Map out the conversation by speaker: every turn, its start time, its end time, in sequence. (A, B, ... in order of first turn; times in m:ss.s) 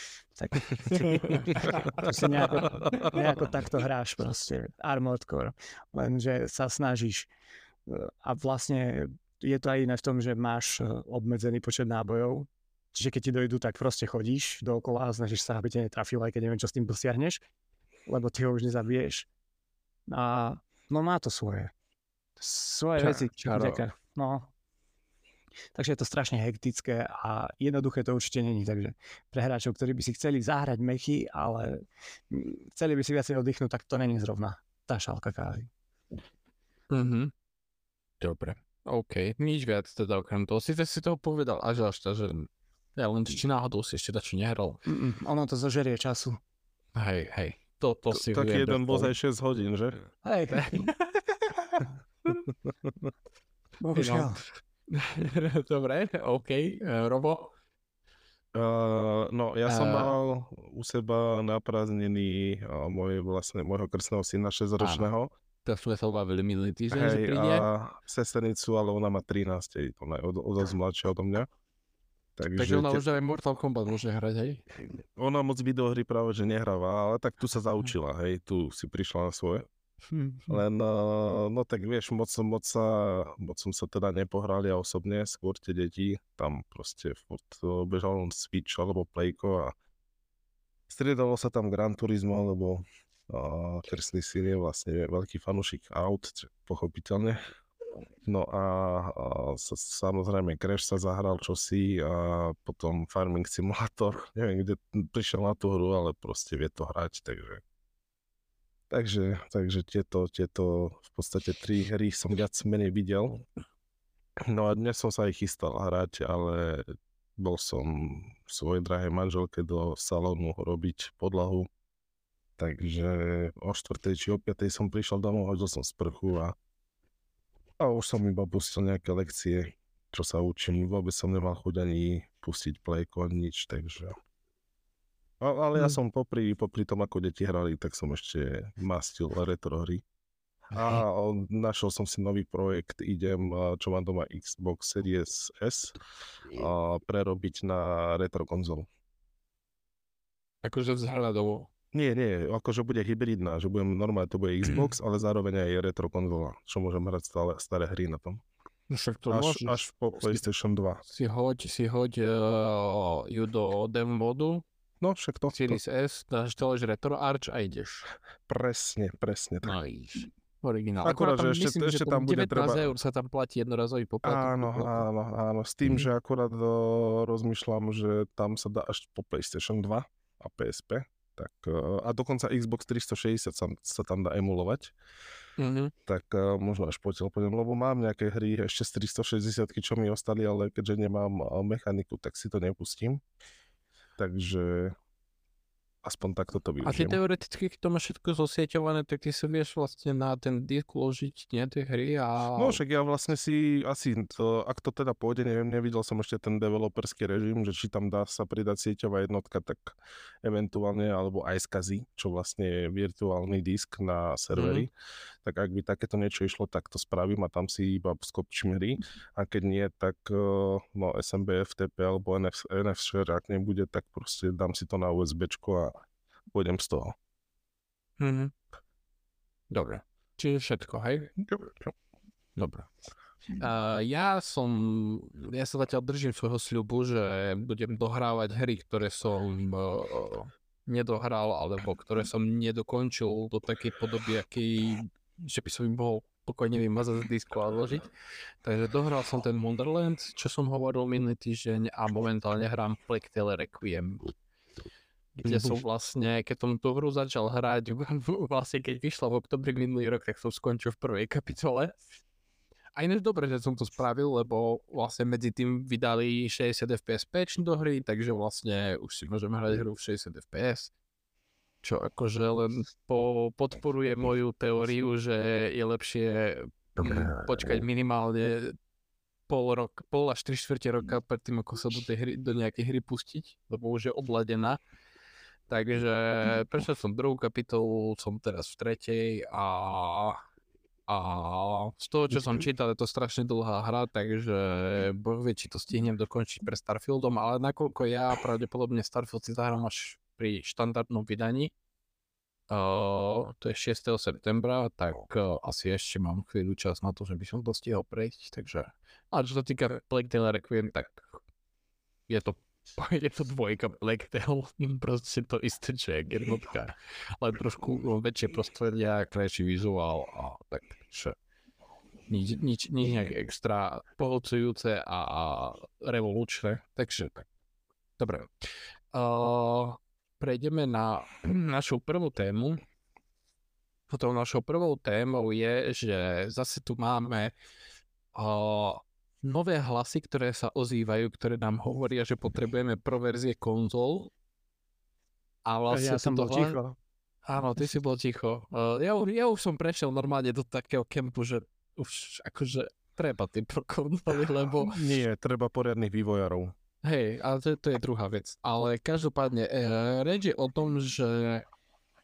0:00.4-0:07.3 A
0:00.9-0:02.7 B
0:07.9-0:17.4 A
0:18.1-0:19.3 A
0:20.1-0:21.7 A
0:22.4-0:24.5 A
0:23.0-0:23.8 B
0:25.7-0:35.7 A
0:36.9-0:37.3 B
0:38.2-0:44.8 B
0:44.9-0:46.4 A
0:47.0-0:49.1 B
0:48.1-0:50.0 C
0:50.2-0:50.9 A
0:50.5-0:51.5 B
0:53.8-0:54.4 A
0:54.0-0:54.3 B
0:54.9-0:57.5 B
0:58.5-1:05.3 C
0:59.7-1:00.2 B
1:04.8-1:05.1 B
1:05.6-1:07.7 B
1:06.9-1:11.5 C
1:12.4-1:13.0 C
1:12.6-1:14.6 B
1:15.2-1:19.7 C
1:20.5-1:29.7 C
1:30.9-1:37.4 C
1:38.3-1:47.6 C
1:48.9-1:53.4 C
1:54.5-2:01.7 C
2:02.6-2:06.6 C
2:07.8-2:14.2 C
2:15.4-2:20.0 C
2:20.7-2:26.0 C
2:26.5-2:28.9 C
2:30.6-2:31.7 B
2:31.9-2:38.4 C
2:38.9-2:40.4 B
2:39.3-2:41.0 C
2:41.1-2:44.6 B
2:45.0-2:45.8 C
2:45.5-2:48.1 B
2:48.5-2:49.8 C
2:49.6-2:55.0 B
2:51.0-2:52.9 C
2:54.2-3:04.9 C
3:05.6-3:05.9 B
3:06.1-3:13.2 C
3:14.2-3:15.0 C
3:16.0-3:17.2 C
3:16.8-3:22.8 B
3:22.6-3:34.9 C
3:34.5-3:34.9 B
3:35.4-3:46.0 C
3:46.5-3:47.2 C
3:48.2-3:48.5 B
3:49.7-3:51.4 B
3:51.4-3:51.7 C
3:52.6-3:52.9 B
3:53.6-4:08.1 B
4:08.6-4:14.3 B
4:15.4-4:21.9 B
4:23.0-4:30.9 B
4:31.8-4:38.8 B
4:39.5-4:44.8 B
4:45.7-4:50.4 B
4:51.1-5:01.7 B
5:02.7-5:11.4 B
5:12.3-5:21.4 B
5:22.3-5:27.5 B
5:28.2-5:28.5 B
5:29.1-5:32.8 B
5:34.1-5:37.5 B
5:38.3-5:44.3 B
5:45.7-5:46.8 B
5:45.9-5:47.0 A
5:47.5-5:55.0 B
5:54.9-5:56.7 C
5:57.0-6:01.7 B